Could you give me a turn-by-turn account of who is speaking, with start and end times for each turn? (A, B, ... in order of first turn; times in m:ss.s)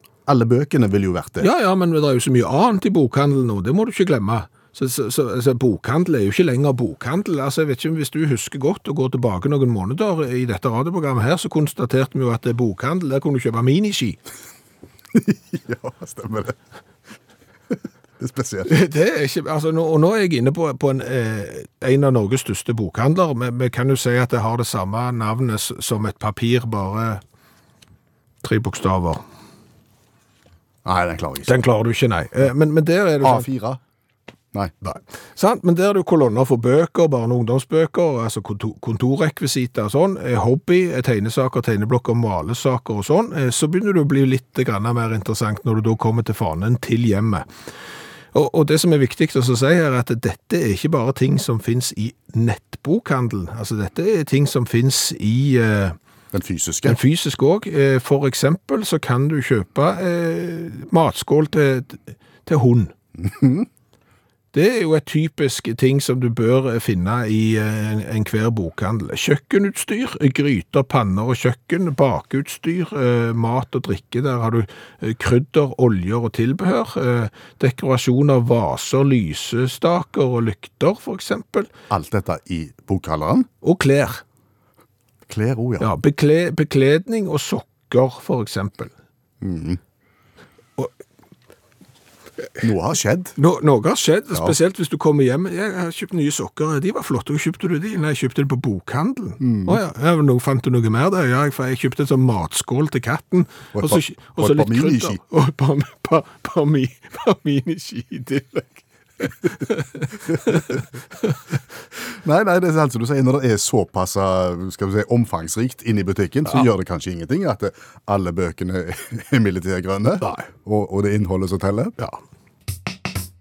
0:00.3-0:01.5 A
0:01.4-0:14.2 B
0:15.1-0:16.6 A
0:18.2-0:18.7 A
0:18.7-0:27.2 B
0:28.4-0:29.2 B
0:30.8-0:31.6 A
0:31.5-0:33.5 B
0:33.2-0:33.8 A
0:34.8-0:47.5 B
0:48.3-0:56.0 B
0:56.3-0:57.0 A
0:56.9-1:02.9 B
1:03.2-1:03.7 A
1:04.5-1:21.7 B
1:21.9-1:23.5 A
1:23.6-1:24.2 B
1:25.3-1:25.9 A
1:25.8-1:28.9 B
1:29.4-1:29.8 A
1:32.6-1:33.4 A
1:33.4-1:51.3 B
1:39.4-1:39.8 A
1:43.7-1:45.2 A
1:52.1-2:02.0 A
2:00.2-2:00.5 B